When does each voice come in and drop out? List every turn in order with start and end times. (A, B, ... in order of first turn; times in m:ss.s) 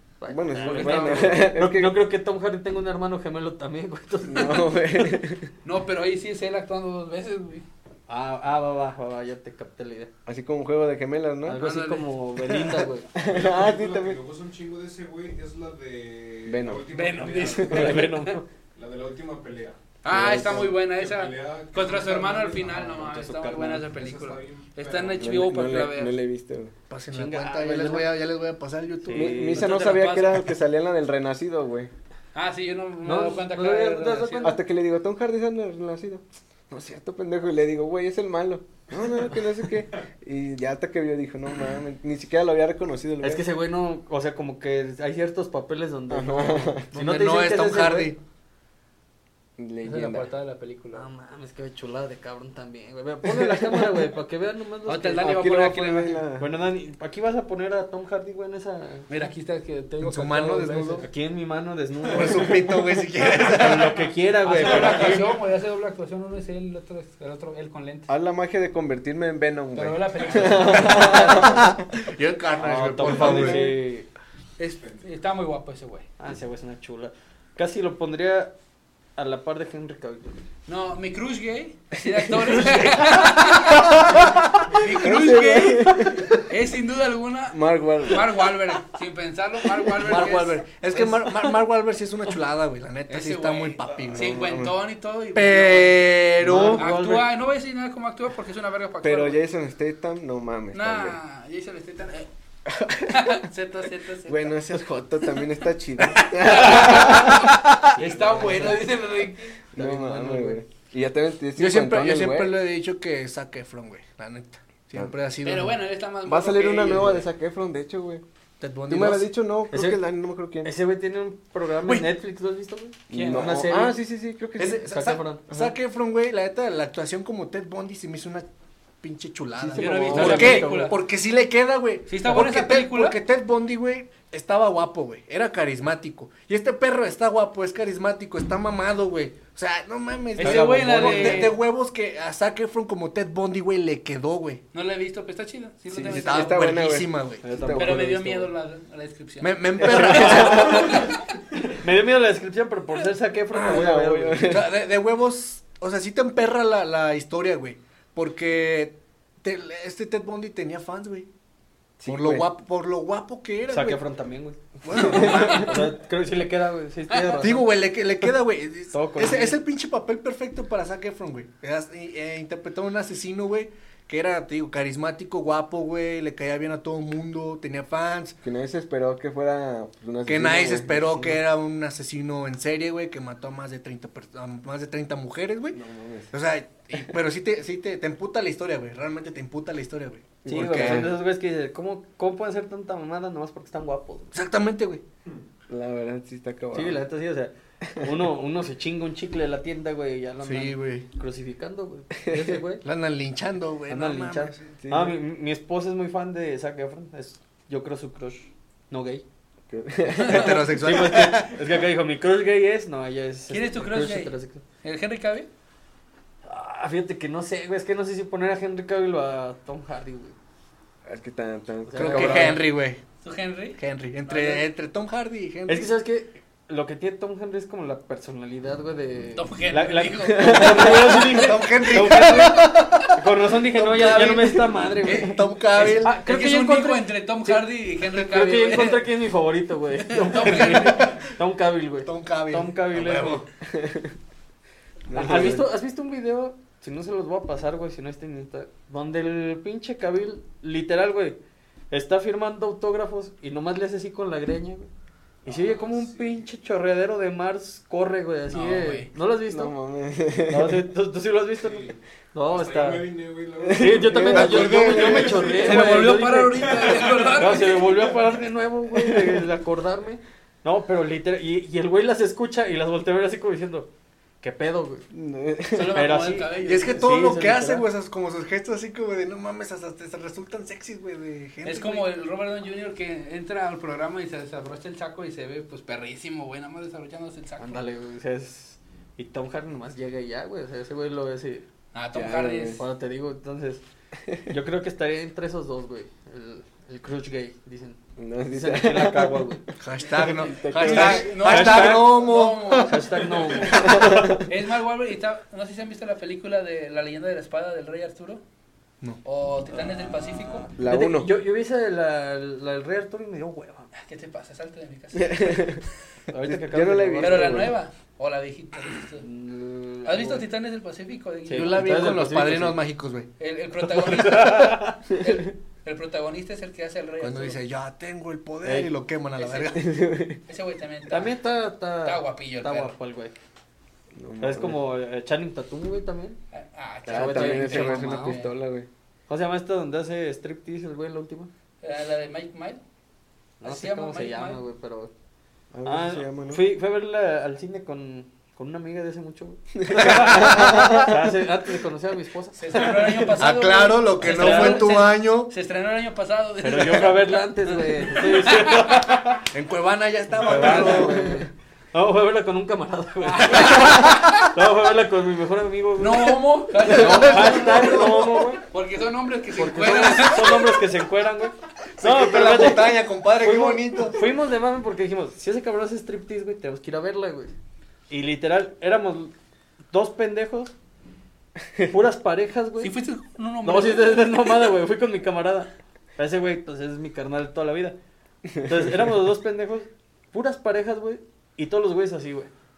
0:00.2-0:04.6 A
0:00.3-0:02.0 B
0:00.6-0:01.4 C
0:04.2-0:05.5 B
0:04.4-0:04.7 C
0:05.6-0:07.6 C
0:08.1-0:10.1 A
0:10.2-0:11.6 B
0:11.4-0:13.1 A
0:11.5-0:12.1 C
0:13.1-0:14.2 B
0:13.2-0:18.1 D
0:16.4-0:16.8 B
0:16.9-0:18.4 C
0:17.6-0:18.4 A
0:18.7-0:19.8 D
0:20.0-0:26.2 C
0:20.0-0:20.8 B
0:20.8-0:23.0 D
0:22.8-0:23.9 A
0:23.9-0:25.2 D
0:25.2-0:26.7 B
0:26.9-0:29.5 E
0:27.1-0:28.2 A
0:29.0-0:29.8 A
0:29.1-0:31.9 B
0:29.5-0:30.5 C
0:32.3-0:34.6 C
0:33.0-0:34.6 A
0:34.4-0:43.5 B
0:39.0-0:39.4 A
0:43.2-0:48.1 A
0:46.1-0:46.9 B
0:46.9-0:48.2 E
0:49.6-0:50.3 B
0:49.8-0:51.0 C
0:50.9-0:55.3 A
0:53.2-0:54.0 B
0:54.8-0:56.2 C
0:55.2-0:56.5 B
0:56.4-0:59.1 A
0:59.1-1:01.0 C
1:00.0-1:01.0 E
1:01.0-1:02.7 A
1:02.1-1:04.0 E
1:03.4-1:05.2 A
1:04.4-1:08.1 C
1:08.1-1:11.8 B
1:09.7-1:11.6 C
1:10.7-1:13.6 E
1:12.6-1:14.1 A
1:13.0-1:13.7 C
1:14.6-1:16.1 C
1:14.7-1:15.0 D
1:16.2-1:18.5 A
1:19.2-1:20.4 A
1:20.7-1:30.6 C
1:24.7-1:26.4 B
1:27.5-1:28.5 B
1:30.0-1:34.4 E
1:30.0-1:31.5 A
1:33.1-1:36.1 C
1:34.1-1:34.7 B
1:35.3-1:36.8 E
1:36.4-1:37.3 A
1:36.4-1:36.8 B
1:36.8-1:39.4 C
1:39.0-1:41.2 B
1:40.7-1:42.3 C
1:42.7-1:43.3 B
1:43.0-1:44.6 C
1:44.2-1:47.9 B
1:46.0-1:49.6 C
1:48.0-1:48.9 A
1:49.7-1:50.6 A
1:49.7-1:52.6 B
1:51.6-1:55.8 E
1:55.4-1:57.2 C
1:56.2-1:58.2 B
1:58.6-1:59.3 E
1:58.9-2:00.7 B
1:59.7-2:00.0 A
2:00.6-2:04.0 A
2:03.1-2:03.5 C
2:03.1-2:04.8 B
2:04.6-2:08.4 E
2:04.8-2:05.4 A
2:09.0-2:24.6 E
2:09.6-2:10.6 B
2:09.7-2:10.9 C
2:10.1-2:11.0 A
2:12.1-2:13.2 C
2:20.4-2:21.6 C
2:20.4-2:21.5 A
2:24.7-2:26.9 C
2:25.9-2:28.2 B
2:26.0-2:27.4 E
2:27.4-2:28.5 A
2:27.7-2:31.2 C
2:29.4-2:31.1 E
2:29.8-2:34.5 A
2:30.0-2:30.9 B
2:33.5-2:34.7 B
2:34.4-2:41.3 E
2:42.0-2:42.5 B
2:42.0-2:44.0 E
2:43.7-2:47.7 A
2:44.8-2:45.9 E
2:44.9-2:45.8 B
2:47.3-2:58.4 E
2:48.9-2:49.6 A
2:58.4-3:01.4 B
3:00.2-3:05.8 E
3:05.7-3:06.3 B
3:06.3-3:11.1 E
3:10.4-3:11.1 B
3:10.4-3:14.3 A
3:14.3-3:15.0 E
3:15.7-3:17.0 B
3:16.7-3:22.8 A
3:17.8-3:18.2 B
3:20.4-3:21.0 E
3:22.3-3:22.6 B
3:22.8-3:24.6 E
3:23.9-3:29.2 A
3:24.6-3:25.2 B
3:29.7-3:30.7 B
3:30.1-3:34.6 A
3:30.2-3:31.6 E
3:33.5-3:35.5 C
3:36.4-3:40.3 A
3:41.0-3:42.6 B
3:41.8-3:42.7 A
3:42.0-3:43.0 E
3:43.2-3:44.7 C
3:43.8-3:45.9 E
3:45.7-4:03.4 A
3:49.4-3:53.1 C
3:50.2-3:51.3 B
3:51.3-3:53.2 E
3:53.7-3:56.2 E
3:54.2-3:54.7 B
3:55.0-3:59.0 C
4:00.1-4:01.2 C
4:00.4-4:01.0 E
4:02.0-4:03.4 E
4:03.6-4:04.1 B
4:05.1-4:05.7 B
4:05.1-4:11.4 A
4:11.9-4:14.9 A
4:15.4-4:16.4 D
4:15.4-4:19.7 A
4:18.5-4:19.1 C
4:19.4-4:20.8 B
4:20.5-4:23.1 A
4:21.6-4:28.3 D
4:23.6-4:25.5 B
4:23.7-4:33.9 A
4:24.3-4:25.5 E
4:25.5-4:27.8 C
4:28.9-4:29.4 B
4:34.4-4:35.1 A
4:35.1-4:36.0 B
4:35.7-4:37.1 C
4:35.9-4:37.9 A
4:36.6-4:42.0 E
4:41.6-4:47.8 C
4:47.6-4:51.6 A
4:51.9-4:52.8 C
4:52.1-4:52.8 B
4:52.8-4:53.8 A
4:54.2-4:54.5 B
4:54.5-4:58.0 A
4:58.2-5:01.4 B
4:58.5-4:59.6 A
4:59.8-5:03.1 E
5:00.2-5:02.3 A
5:00.7-5:03.7 C
5:02.8-5:04.5 A
5:03.6-5:04.4 B
5:04.4-5:08.4 C
5:09.2-5:10.7 C
5:10.8-5:11.3 B
5:10.8-5:13.9 A
5:13.9-5:15.8 C
5:15.1-5:15.8 B
5:16.3-5:17.7 A
5:16.4-5:17.7 B
5:17.2-5:19.2 C
5:19.2-5:20.4 A
5:20.0-5:22.0 C
5:21.5-5:22.8 A
5:21.5-5:23.3 E
5:23.4-5:27.6 C
5:24.0-5:25.0 A
5:27.2-5:29.8 E
5:28.6-5:28.9 A
5:29.4-5:29.7 C
5:29.6-5:30.4 B
5:30.5-5:31.3 C
5:31.1-5:33.3 A
5:32.0-5:32.9 C
5:34.1-5:34.8 B
5:34.4-5:36.4 A
5:36.5-5:38.5 C
5:37.1-5:38.4 A
5:37.1-5:38.9 B
5:39.3-5:41.5 A
5:41.8-5:42.8 C
5:43.6-5:45.1 A
5:43.6-5:44.6 C
5:45.7-5:46.6 B
5:45.8-5:53.3 A
5:49.8-5:51.1 B
5:50.0-5:51.1 E
5:52.6-5:59.2 C
5:53.4-5:55.5 E
5:54.2-5:55.0 A
5:56.6-5:59.4 A
5:59.5-6:01.4 E
6:00.4-6:08.6 A
6:00.6-6:01.1 C
6:00.6-6:01.4 B
6:03.3-6:04.5 C
6:06.0-6:10.8 C
6:06.8-6:08.5 E
6:09.5-6:17.5 A
6:12.0-6:14.2 E
6:18.1-6:19.3 A
6:19.9-6:20.7 A
6:21.8-6:22.9 A
6:22.8-6:24.7 C
6:23.6-6:28.0 A
6:28.6-6:32.5 A